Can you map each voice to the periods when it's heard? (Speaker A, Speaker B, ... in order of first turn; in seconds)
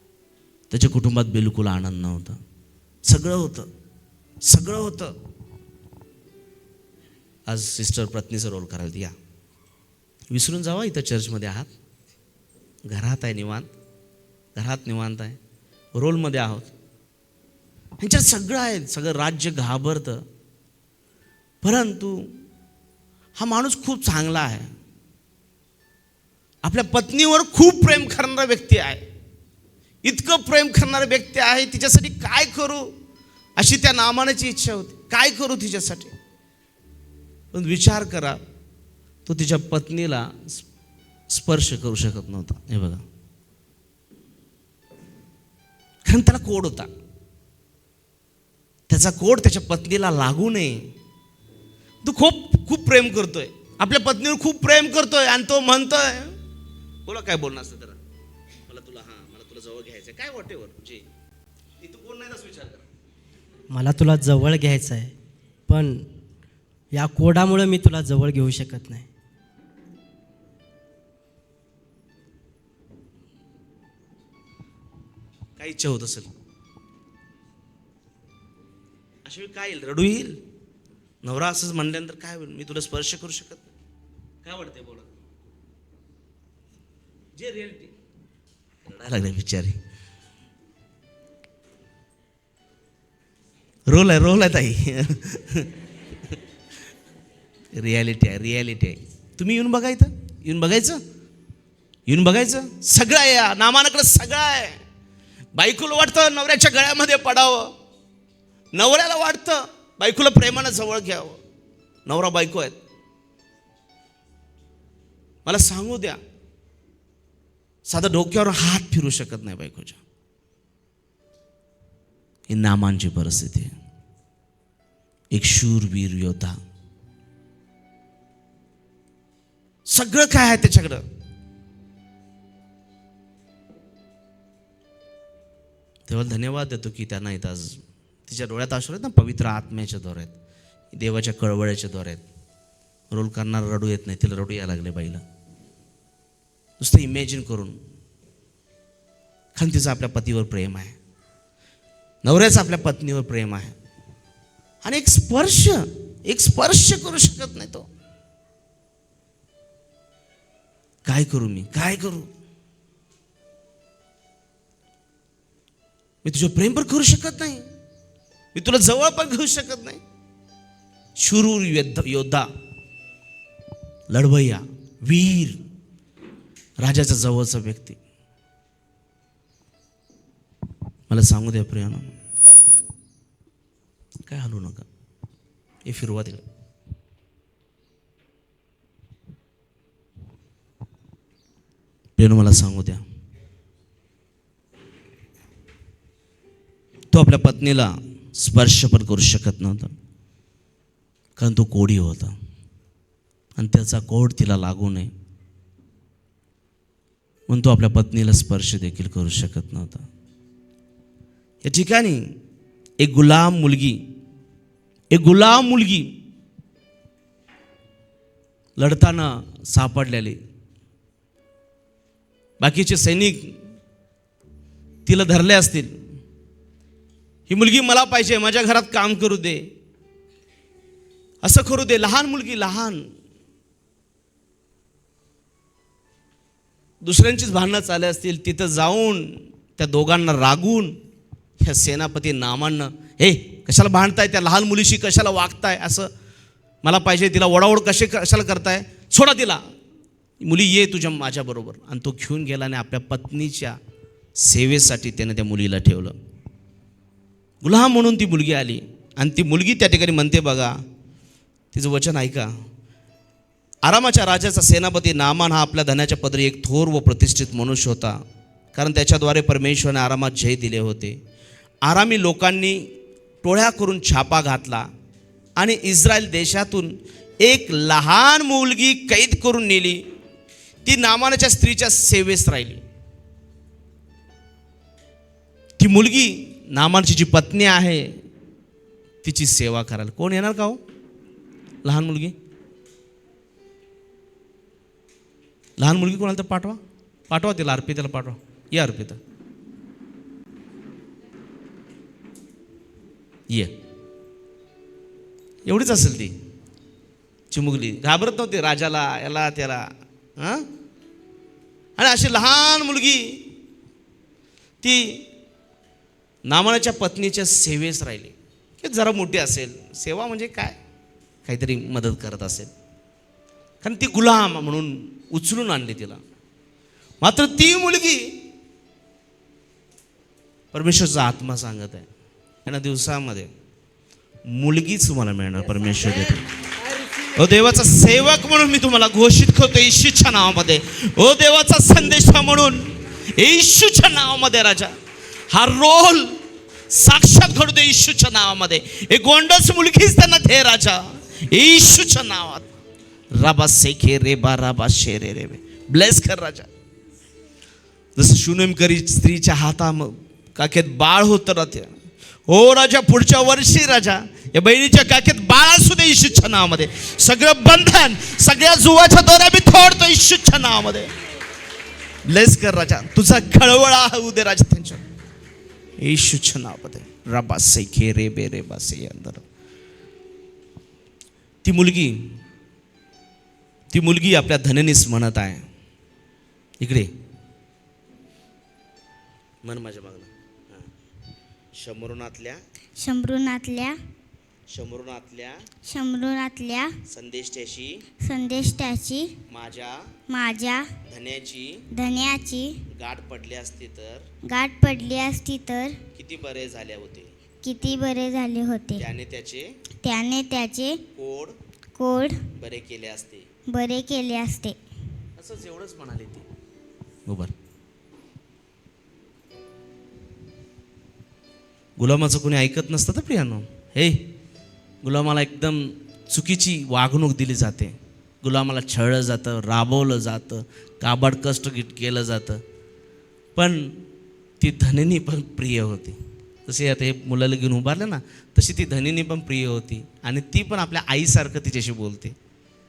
Speaker A: 0.7-2.4, 3.1-3.7, 4.4-5.2, 7.5-9.1, 10.3-11.7, 12.8-13.7, 14.5-15.4, 15.9-16.7, 18.0-20.2, 21.6-22.3, 23.4-24.7, 26.6-29.0, 30.0-32.9, 33.6-36.1, 37.5-38.4, 39.2-40.6, 41.3-43.0, 46.0-46.9, 48.9-50.9, 52.0-56.3, 57.0-58.0, 58.7-61.0, 61.8-62.8, 75.6-76.3, 79.2-80.4, 81.2-83.7, 84.4-85.1, 87.3-87.9, 88.8-89.8, 93.9-95.7, 97.7-101.0, 102.1-104.8, 105.5-107.7, 108.7-111.4, 112.0-112.8, 115.5-116.2, 117.8-120.0, 122.5-123.7, 125.3-126.6, 129.8-131.0, 136.1-140.3, 140.9-142.2, 143.1-145.2, 146.8-147.8, 149.6-150.9, 152.2-153.7, 154.8-157.9, 161.0-162.3, 166.2-167.7, 168.5-170.0, 171.2-172.5, 174.1-175.6, 176.8-178.0, 181.1-182.1, 184.3-184.8, 185.8-186.4, 192.2-193.0, 197.1-199.9, 201.4-202.3, 203.6-205.1, 207.5-210.0, 211.6-212.3, 213.0-214.0, 215.1-216.1, 218.8-220.4, 222.6-223.6, 225.1-226.0, 227.5-229.6, 231.4-233.1, 237.0-240.9, 241.6-246.1, 246.8-249.6, 250.4-253.8, 254.3-256.1, 257.6-260.8, 261.7-262.5, 263.8-268.2, 268.7-271.2, 271.8-272.9, 273.4-274.9, 275.6-280.0, 280.8-282.8, 285.8-288.2, 289.2-290.8, 291.8-292.3, 295.8-299.2, 305.6-306.3, 307.5-310.7, 312.0-313.5, 314.8-315.2, 316.4-320.8, 321.4-322.7, 323.8-326.2, 327.2-328.4, 330.7-332.1, 332.6-333.5, 334.4-336.4, 337.2-344.9, 345.5-346.4, 346.9-352.6, 353.3-356.7, 358.1-361.9, 362.5-371.1, 372.2-375.0, 376.0-379.4, 381.6-382.4, 383.9-385.6, 386.8-387.1, 389.6-390.9, 391.7-392.6, 394.7-395.6, 397.1-398.0, 399.5-400.1, 401.1-401.9, 402.9-404.2, 406.1-407.3, 409.0-409.8, 411.1-411.5, 412.6-413.4, 415.4-416.4, 417.3-417.5, 422.0-424.2, 425.0-432.6, 433.6-434.0, 434.6-442.3
Speaker B: 63.7-65.1, 65.7-66.1, 66.9-69.1
Speaker C: 393.0-394.0, 395.9-396.9, 398.2-399.3, 400.3-400.9, 401.9-402.8, 404.4-406.0, 407.6-409.0, 410.0-411.0, 411.9-412.5, 413.7-414.8